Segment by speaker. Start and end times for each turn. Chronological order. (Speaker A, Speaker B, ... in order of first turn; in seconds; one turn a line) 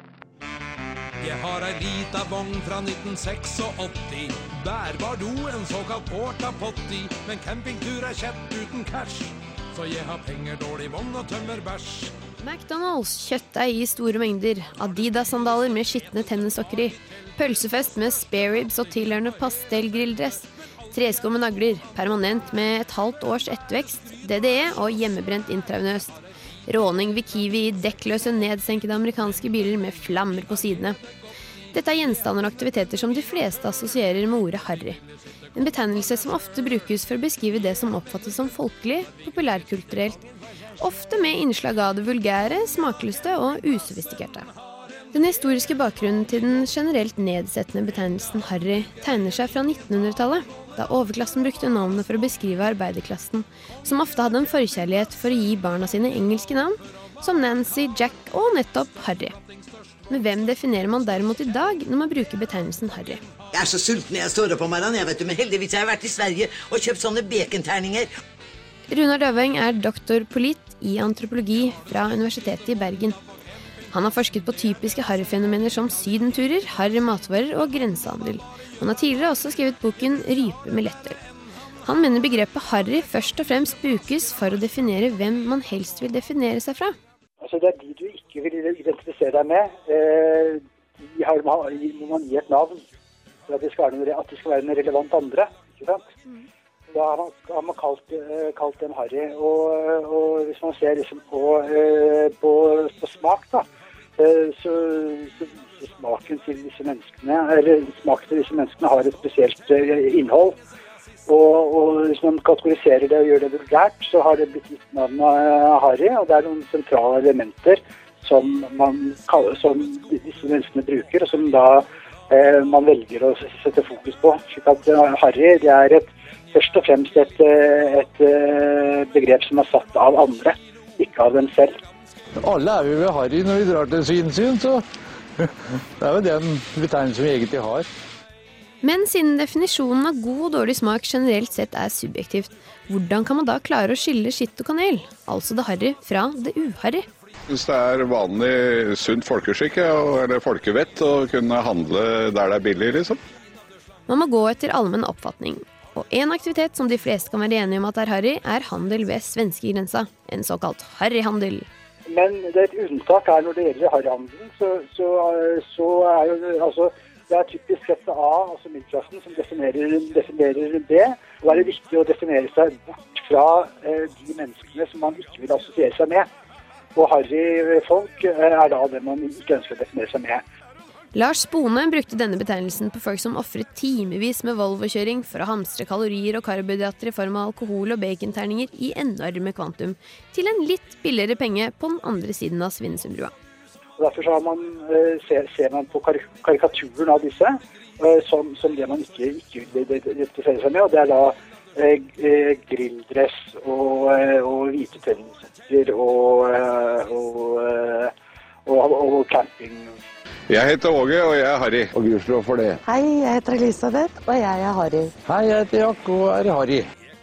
Speaker A: 1.2-12.1
Speaker B: 12.4-31.0
Speaker B: 31.7-35.0
Speaker B: 35.5-40.2
Speaker B: 40.8-44.5
Speaker B: 45.1-59.4
Speaker B: 60.1-63.2
Speaker C: 63.5-68.1
Speaker B: 68.9-73.2
Speaker B: 73.9-81.2
Speaker B: 81.8-87.0
Speaker D: 87.4-90.6
Speaker D: 91.1-92.8
Speaker D: 93.5-96.1
Speaker D: 96.9-103.6
Speaker D: 104.2-110.6
Speaker D: 111.3-131.8
Speaker E: 132.4-134.8
Speaker E: 135.4-137.8
Speaker B: 138.8-147.1
Speaker F: 147.5-153.2
Speaker B: 154.1-161.7
Speaker D: 162.1-176.3
Speaker D: 176.9-180.4
Speaker B: 181.1-193.3
Speaker D: 194.0-208.1
Speaker D: 208.7-210.0
Speaker F: 210.5-211.9
Speaker E: 211.9-212.8
Speaker G: 212.8-215.1
Speaker E: 215.2-216.8